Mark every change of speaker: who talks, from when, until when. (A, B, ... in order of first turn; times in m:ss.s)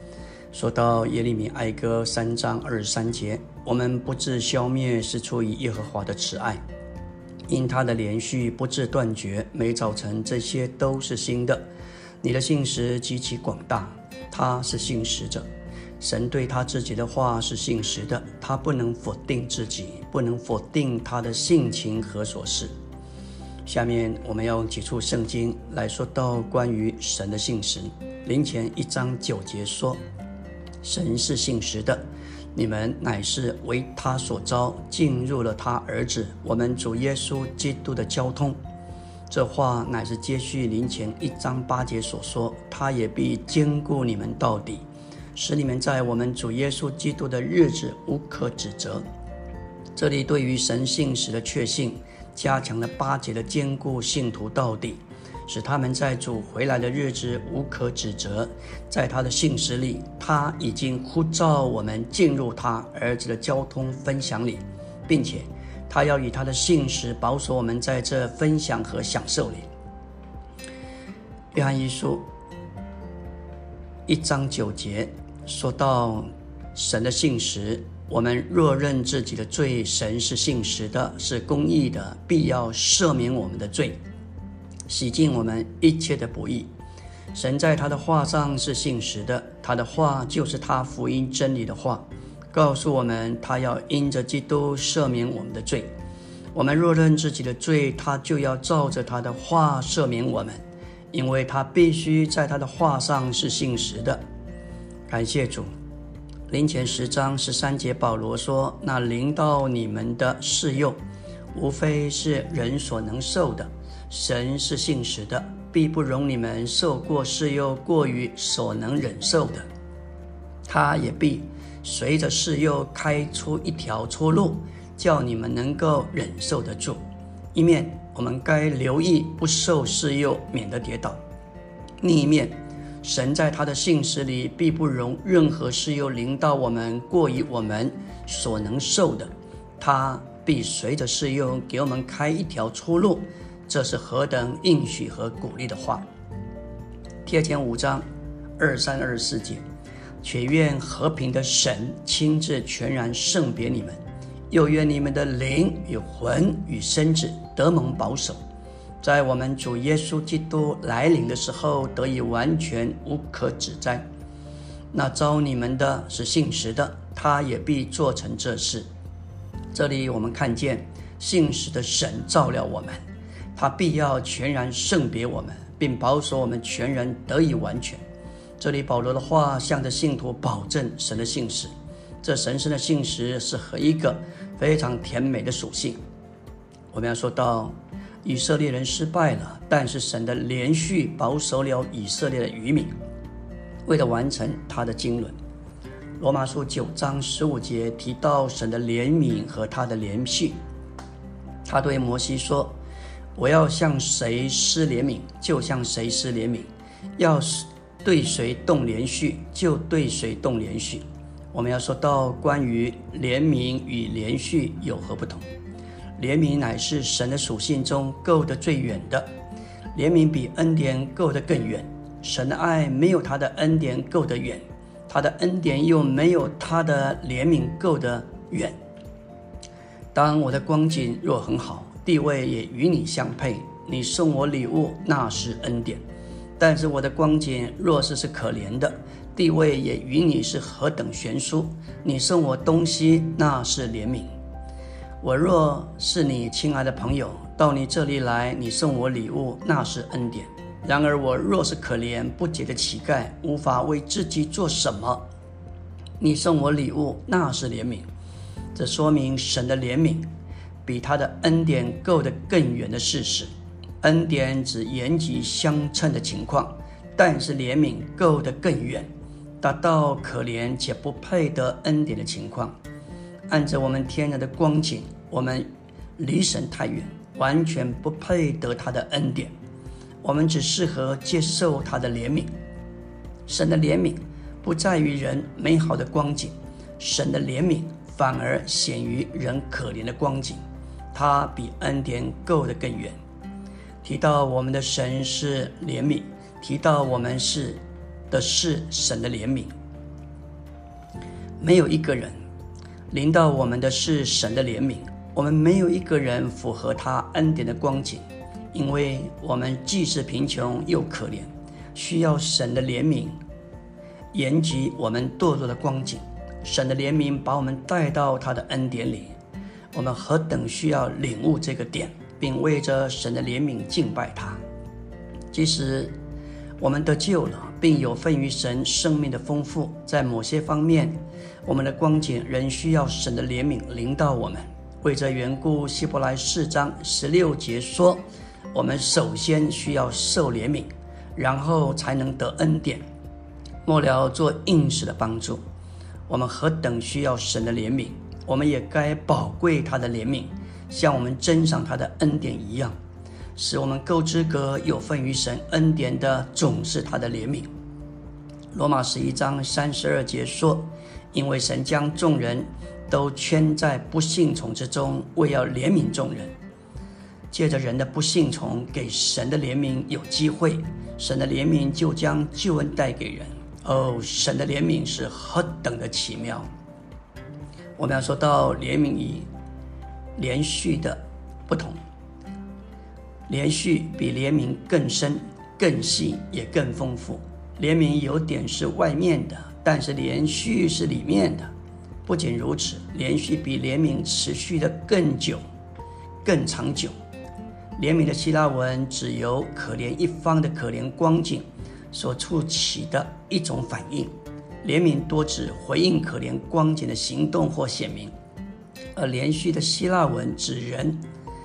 0:00.5-0:06.6 A
0:07.5-0:11.6 A
0:12.2-0:15.5 A
0:16.0-0:22.7 A
0:23.7-0:30.0 A
0:30.8-0:32.0 A
0:32.6-0:38.6 A
0:39.3-0:44.8 A
0:45.4-0:49.0 A
0:50.0-1:09.7 A
1:11.5-1:12.2 A
1:14.1-1:24.0 A
1:24.9-1:26.7 A
1:27.3-1:35.9 A
1:36.5-1:40.6 A
1:41.1-1:44.2 A
1:45.1-1:45.7 A
1:46.5-1:51.0 A
1:51.5-1:59.7 A
2:00.7-2:07.0 A
2:07.5-2:11.2 A
2:12.0-2:26.0 A
2:27.2-2:28.0 A
2:28.6-2:29.6 A
2:30.2-2:34.0 A
2:34.5-2:38.4 A
2:39.0-2:44.1 A
2:44.9-2:48.9 A
2:49.7-2:53.0 A
2:53.6-2:58.0 A
2:58.6-3:06.0 A
3:06.9-3:07.7 A
3:08.2-3:12.9 A
3:13.9-3:15.4 A
3:16.2-3:20.6 A
3:21.6-3:22.7 A
3:23.4-3:35.4 A
3:36.2-3:39.3 A
3:40.0-3:48.8 A
3:50.1-3:56.0 A
3:56.6-4:04.3 A
4:05.2-4:15.2 A
4:16.2-4:18.1 A
4:18.8-4:20.3 A
4:20.8-4:23.5 A
4:24.0-4:29.1 A
4:29.6-4:32.7 A
4:33.5-4:39.5 A
4:40.2-4:42.5 A
4:43.5-4:50.6 A
4:51.1-4:53.2 A
4:54.0-4:57.8 A
4:58.3-4:59.7 A
5:01.6-5:02.4 A
5:03.1-5:13.4 A
5:14.3-5:19.4 A
5:19.9-5:24.6 A
5:25.5-5:26.1 A
5:26.8-5:43.0 A
5:43.8-5:45.6 A
5:46.3-5:52.9 A
5:53.6-5:57.7 A
5:58.7-6:06.5 A
6:07.5-6:16.7 A
6:18.0-6:19.5 A
6:20.4-6:22.0 A
6:23.5-6:31.7 A
6:32.3-6:35.6 A
6:36.4-6:37.1 A
6:38.0-6:44.3 A
6:44.8-6:48.3 A
6:49.2-6:51.2 A